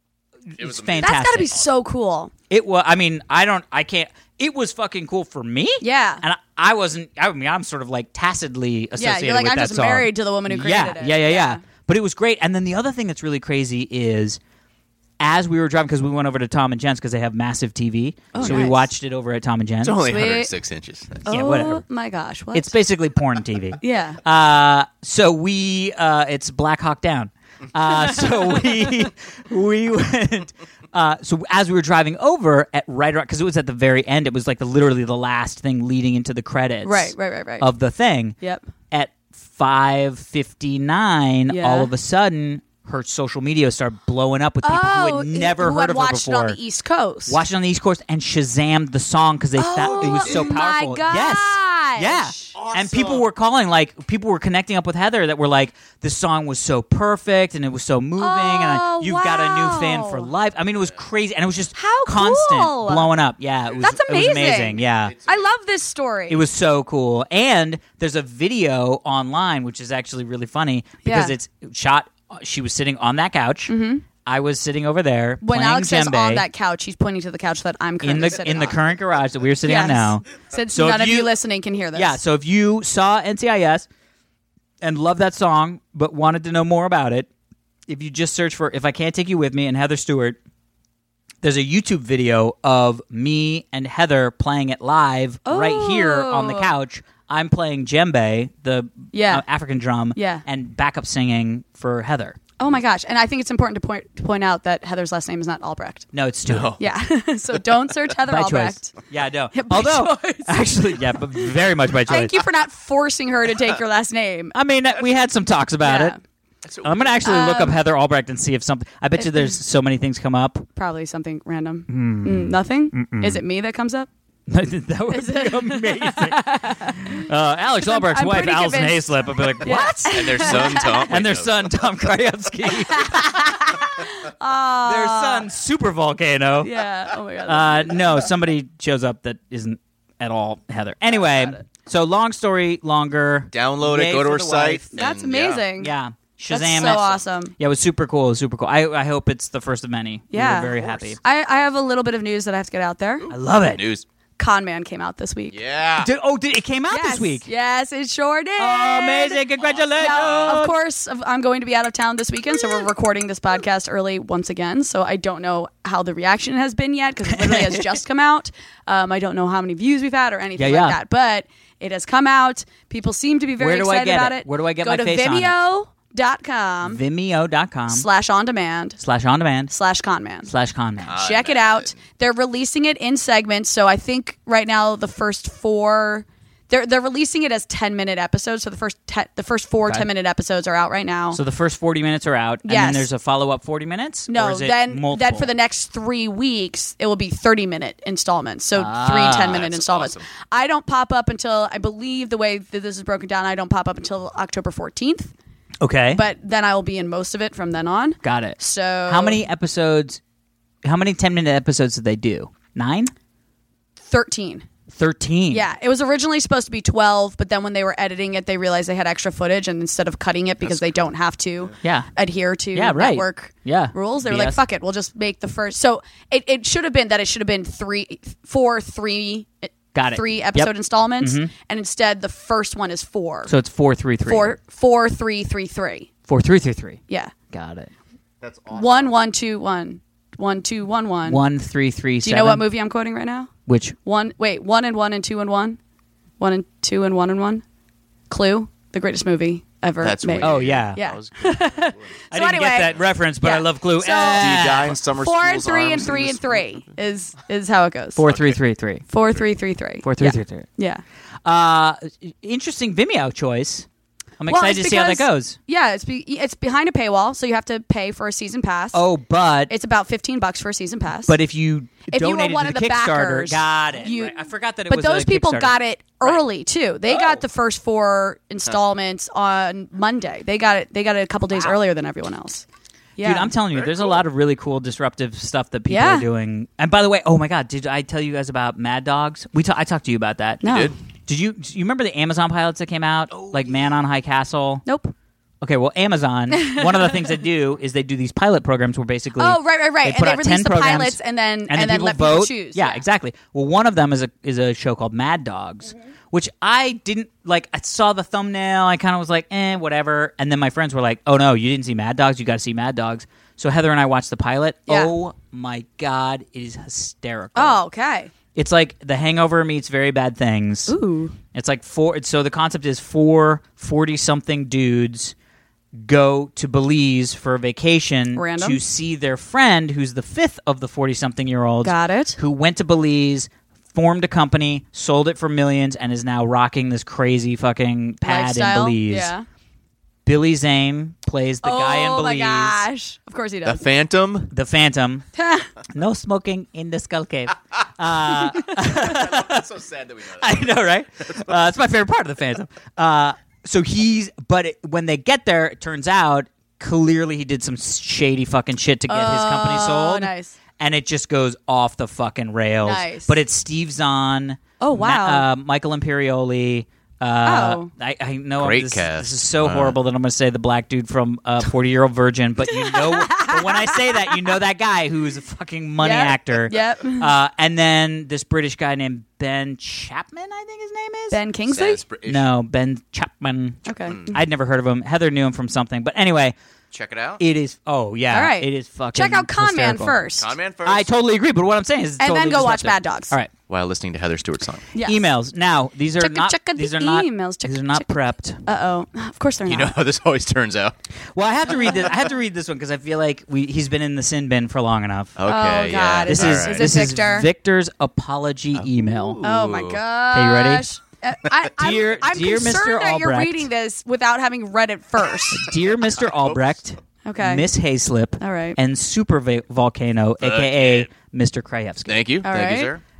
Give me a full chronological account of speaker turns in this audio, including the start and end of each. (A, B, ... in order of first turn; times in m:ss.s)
0:00.5-0:01.5 A
0:00.6-0:01.6 B
0:01.0-0:02.3 C
0:02.5-0:14.4 A
0:05.8-0:06.2 C
0:09.0-0:11.6 C
0:15.2-0:20.0 A
0:18.3-0:18.7 B
0:18.3-0:18.9 C
0:19.8-0:21.2 B
0:20.0-0:20.5 C
0:21.2-0:22.8 C
0:21.3-0:21.8 A
0:22.5-0:38.4 A
0:23.8-0:24.2 C
0:27.9-0:28.9 C
0:36.8-0:37.7 C
0:38.9-0:46.6 A
0:41.5-0:41.9 C
0:44.6-0:47.4 C
0:47.3-1:05.1 A
0:49.6-0:52.5 C
0:49.8-0:50.6 B
0:52.5-0:53.2 B
0:58.2-1:00.3 C
1:01.7-1:03.1 C
1:03.8-1:06.4 C
1:05.1-1:05.5 B
1:06.3-1:13.7 A
1:11.0-1:11.3 C
1:13.7-1:14.0 C
1:14.2-1:16.4 A
1:15.4-1:18.8 C
1:18.0-1:21.3 A
1:19.6-1:22.2 C
1:21.9-1:23.9 A
1:24.8-1:27.3 A
1:27.9-1:30.4 A
1:31.4-1:42.4 A
1:35.4-1:36.7 C
1:39.1-1:39.4 C
1:40.1-1:40.4 C
1:42.6-1:46.1 C
1:46.1-1:46.7 A
1:46.5-1:46.8 B
1:46.8-1:49.0 C
1:48.2-1:52.4 A
1:49.5-1:51.5 C
1:52.1-1:54.5 C
1:54.5-1:56.2 A
1:55.8-1:56.2 C
1:56.6-1:57.2 B
1:56.8-2:00.7 A
1:57.2-1:57.8 C
1:59.2-1:59.5 C
2:00.8-2:04.1 C
2:01.9-2:03.4 A
2:04.5-2:13.4 A
2:05.1-2:07.2 C
2:07.8-2:11.1 C
2:10.1-2:11.8 B
2:12.9-2:15.5 C
2:14.8-2:16.8 A
2:16.6-2:18.1 C
2:17.4-2:25.0 A
2:23.5-2:25.7 B
2:24.9-2:25.9 C
2:25.8-2:27.0 A
2:26.5-2:27.6 C
2:26.7-2:27.2 B
2:27.6-2:31.2 A
2:30.3-2:33.3 C
2:33.3-2:33.8 A
2:33.3-2:34.0 B
2:34.4-2:35.6 C
2:35.5-2:36.1 B
2:36.0-2:37.4 A
2:36.9-2:39.4 C
2:38.6-2:40.7 A
2:40.0-2:57.0 C
2:47.2-2:47.9 A
2:50.6-2:51.0 A
2:53.6-2:55.5 A
2:56.8-2:58.0 A
2:57.9-2:59.0 C
2:59.0-2:59.7 A
2:59.7-3:00.5 C
3:00.4-3:01.2 A
3:01.0-3:02.0 B
3:01.1-3:11.4 C
3:11.3-3:15.5 A
3:12.6-3:13.1 C
3:14.3-3:25.3 C
3:18.7-3:19.6 A
3:19.3-3:20.2 B
3:25.8-3:26.2 A
3:26.1-3:29.4 C
3:28.2-3:30.2 A
3:30.8-3:33.1 A
3:34.1-3:34.6 C
3:34.9-3:35.6 A
3:35.5-3:53.5 C
3:41.8-3:42.1 A
3:42.7-3:44.6 A
3:49.9-3:51.5 A
3:53.4-3:54.5 A
3:54.3-3:56.1 C
3:56.3-3:57.0 A
3:57.5-3:57.9 A
3:58.4-3:59.1 B
3:58.7-4:01.4 C
4:01.3-4:02.6 A
4:02.2-4:03.5 C
4:03.7-4:03.9 A
4:04.0-4:05.8 C
4:06.4-4:07.6 C
4:08.3-4:18.2 C
4:10.0-4:12.1 B
4:10.4-4:11.0 A
4:12.3-4:15.0 A
4:14.3-4:16.8 B
4:18.2-4:19.0 A
4:18.3-4:18.6 B
4:19.1-4:21.0 C
4:20.0-4:20.7 A
4:21.4-4:23.9 A
4:24.4-4:25.6 A
4:24.5-4:29.0 C
4:28.9-4:29.7 A
4:29.7-4:31.3 C
4:31.3-4:36.4 A
4:32.1-4:42.6 C
4:37.1-4:37.4 A
4:43.2-4:43.5 C
4:43.2-4:54.8 A
4:45.9-4:46.3 C
4:50.6-4:50.9 C
4:50.6-4:50.9 B
4:54.8-4:55.1 C
4:55.6-5:17.8 A
4:56.5-4:57.3 C
4:59.4-5:03.0 C
5:17.5-5:18.3 C
5:18.5-5:20.9 A
5:20.9-5:21.4 C
5:21.5-5:25.3 A
5:26.0-5:39.3 A
5:28.3-5:28.8 C
5:31.8-5:32.4 C
5:38.2-5:39.4 C
5:40.2-5:42.8 A
5:41.6-5:43.8 C
5:43.6-5:44.5 B
5:44.5-5:45.2 A
5:45.4-5:45.7 C
5:45.9-5:49.7 A
5:48.8-5:50.8 B
5:50.3-6:21.4 A
5:59.1-6:00.5 C
6:02.8-6:03.4 C
6:04.8-6:05.4 C
6:07.4-6:07.9 C
6:08.6-6:10.0 B
6:12.7-6:14.3 C
6:16.0-6:17.3 C
6:21.3-6:22.0 C
6:21.7-6:22.5 B
6:22.2-6:26.5 A
6:23.8-6:24.4 C
6:26.9-6:27.4 B
6:27.4-6:30.2 A
6:28.3-6:30.5 C
6:30.4-6:31.1 B
6:30.8-6:33.5 A
6:32.2-6:33.3 C
6:33.7-6:34.8 B
6:34.9-6:35.2 C
6:35.0-6:38.6 A
6:36.2-6:38.1 C
6:38.6-6:39.9 C
6:39.6-6:40.9 B
6:41.3-6:45.4 A
6:45.4-6:46.9 B
6:45.4-6:47.5 C
6:46.3-6:49.4 A
6:48.7-6:50.0 B
6:49.4-6:55.7 C
6:50.3-6:50.8 A
6:51.8-6:53.7 A
6:55.5-7:02.2 A
6:56.4-6:56.8 B
6:57.2-6:57.7 C
6:58.4-6:58.8 C
7:00.4-7:01.1 B
7:02.0-7:03.0 B
7:02.4-7:02.9 C